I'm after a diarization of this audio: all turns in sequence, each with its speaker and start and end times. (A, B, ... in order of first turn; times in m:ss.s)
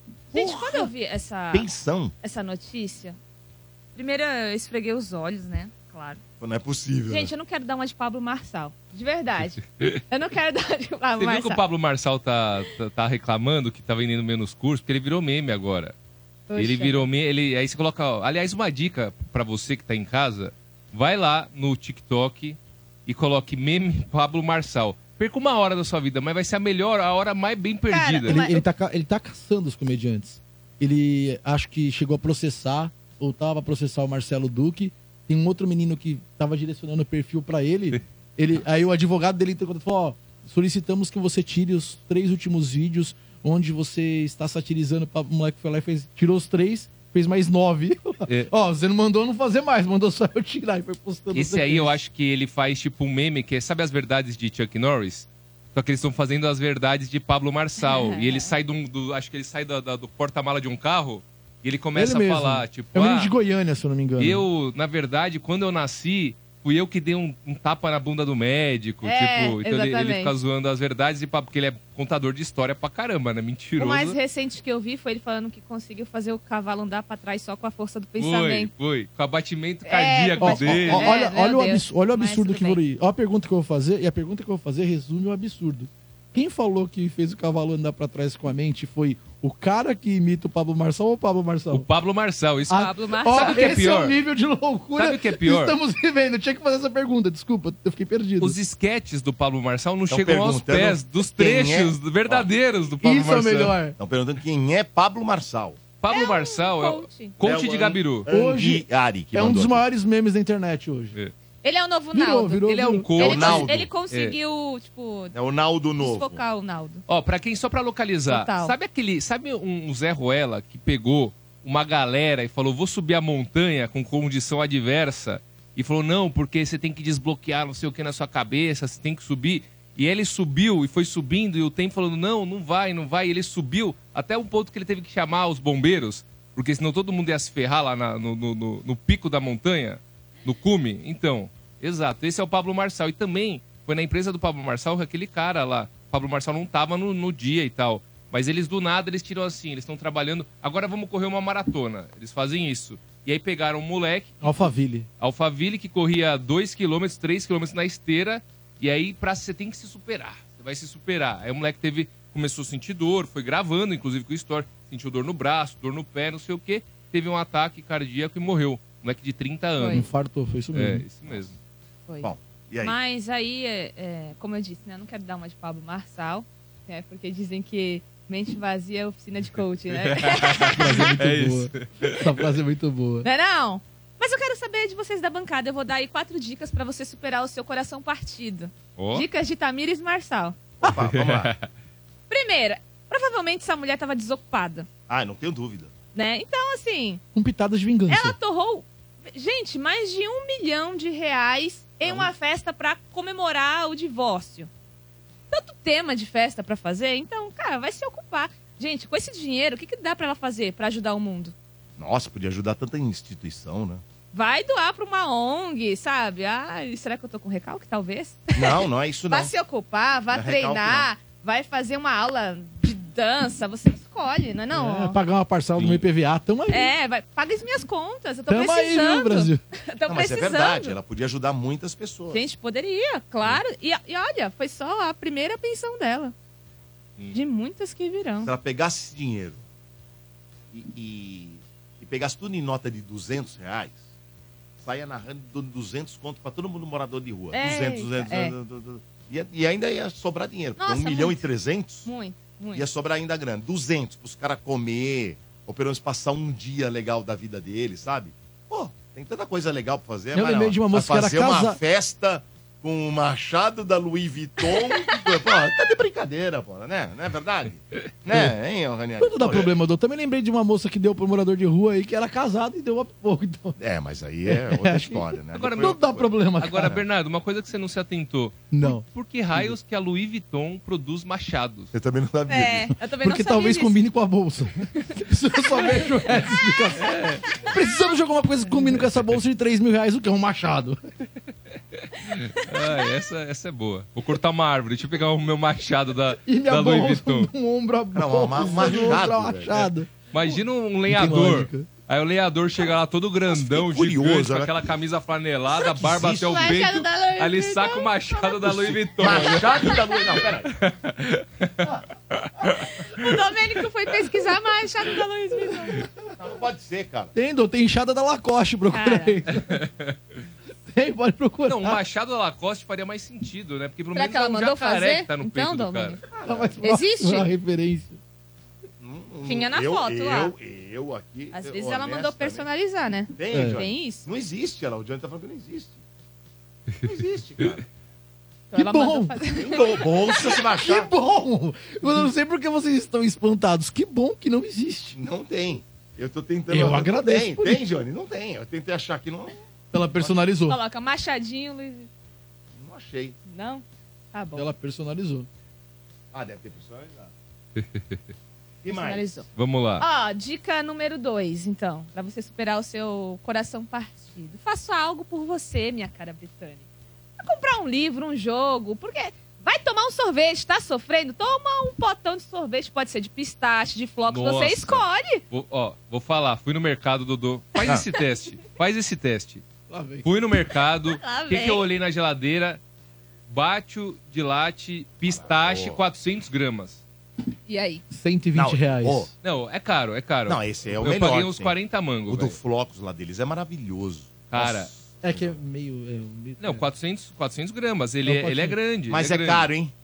0:00.3-0:00.9 A
0:00.3-0:01.7 B
0:01.5-0:02.1 A
0:02.2-0:03.2 B
0:04.0-0:06.2 B
0:06.4-0:07.3 A
0:07.1-0:11.6 B
0:11.2-0:15.9 C
0:16.5-0:17.1 B
0:16.5-0:28.4 C
0:27.9-0:28.6 B
0:28.3-0:52.0 D
0:51.3-1:03.3 C
0:57.8-0:58.5 B
1:01.9-1:04.4 D
1:04.2-1:14.2 C
1:09.0-1:10.3 B
1:13.8-1:18.7 B
1:18.2-1:21.1 C
1:19.8-1:22.8 B
1:20.4-1:31.9 D
1:31.7-1:34.2 C
1:32.7-1:38.6 D
1:32.7-1:34.0 B
1:35.0-1:35.8 C
1:38.4-1:43.8 C
1:40.1-1:42.5 A
1:43.0-1:44.0 D
1:44.0-1:45.8 A
1:46.0-1:48.3 C
1:46.1-1:47.4 B
1:47.4-1:49.8 A
1:48.3-1:51.2 D
1:51.6-1:55.3 B
1:52.1-1:53.1 D
1:52.9-1:54.4 C
1:53.2-1:53.9 A
1:55.3-1:56.4 A
1:56.0-1:57.0 B
1:57.1-2:50.0 C
1:58.3-1:58.7 B
2:34.4-2:35.1 D
2:49.8-2:50.1 B
2:49.9-2:51.0 D
2:50.7-2:51.6 C
2:52.2-2:53.0 A
2:52.8-3:01.1 B
2:59.9-3:02.4 C
3:00.7-3:03.3 D
3:03.2-3:10.6 B
3:09.0-3:09.2 C
3:10.8-3:11.5 A
3:10.9-3:11.7 C
3:12.3-3:14.9 B
3:15.1-3:15.9 A
3:16.1-3:17.2 B
3:17.3-3:18.4 D
3:18.1-3:24.7 B
3:22.0-3:22.3 A
3:25.5-3:31.5 B
3:32.0-3:34.0 A
3:34.3-3:45.2 B
3:38.6-3:39.5 A
3:40.3-3:41.1 A
3:44.7-3:46.9 D
3:45.8-3:46.0 C
3:46.7-3:51.0 B
3:48.5-3:49.6 D
3:50.1-3:52.4 A
3:52.3-3:56.3 B
3:57.3-3:58.5 B
3:58.4-3:59.6 A
4:00.7-4:04.0 A
4:04.8-4:12.1 A
4:07.5-4:08.5 B
4:10.8-4:11.4 B
4:12.0-4:12.8 B
4:12.7-4:29.7 A
4:20.3-4:21.8 D
4:29.2-4:33.8 D
4:33.8-4:36.3 A
4:34.4-4:37.0 D
4:35.5-4:41.9 C
4:38.7-4:39.0 D
4:41.9-4:42.9 A
4:42.5-4:44.0 B
4:43.2-4:51.0 D
4:45.7-4:46.3 B
4:47.0-4:47.4 C
4:52.0-4:57.5 C
4:56.4-5:00.6 D
4:58.1-4:59.9 A
5:00.3-5:10.2 C
5:01.1-5:01.9 D
5:03.5-5:04.7 A
5:05.7-5:06.8 A
5:06.5-5:08.6 B
5:08.6-5:10.7 A
5:10.7-5:11.9 C
5:12.4-5:12.7 C
5:13.0-5:16.1 B
5:16.4-5:17.3 A
5:17.3-5:19.8 D
5:18.9-5:19.4 B
5:19.6-5:20.2 C
5:20.9-5:22.0 D
5:21.6-5:26.2 C
5:24.1-5:26.2 B
5:26.3-5:26.7 A
5:26.4-5:28.2 D
5:26.8-5:27.5 B
5:29.0-5:32.7 A
5:29.4-5:30.5 B
5:31.5-5:34.3 B
5:33.4-5:36.0 A
5:33.5-5:33.8 D
5:37.0-5:37.8 A
5:38.7-5:40.6 B
5:38.7-5:39.4 D
5:39.5-5:41.1 A
5:40.8-5:45.2 D
5:45.2-5:49.6 A
5:46.7-5:47.8 D
5:49.9-5:50.8 D
5:50.7-5:52.1 B
5:52.8-5:53.4 A
5:53.5-5:54.7 B
5:54.5-5:55.5 D
5:56.3-5:57.3 A
5:57.8-5:58.2 C
5:58.8-5:59.3 A
5:58.9-5:59.5 B
5:59.6-6:00.0 C
6:00.0-6:06.8 B
6:07.4-6:15.4 B
6:14.3-6:19.6 C
6:17.9-6:18.2 B
6:19.9-6:20.3 D
6:20.2-6:22.8 C
6:21.1-6:21.8 B
6:23.5-6:27.0 C
6:25.3-6:26.0 A
6:27.7-6:28.0 B
6:28.1-6:29.3 D
6:28.5-6:29.3 A
6:29.4-6:32.6 C
6:30.5-6:31.7 A
6:32.3-6:35.6 A
6:34.5-6:34.9 C
6:35.2-6:36.9 D
6:36.6-6:39.7 C
6:38.2-6:38.8 D
6:39.1-6:39.9 A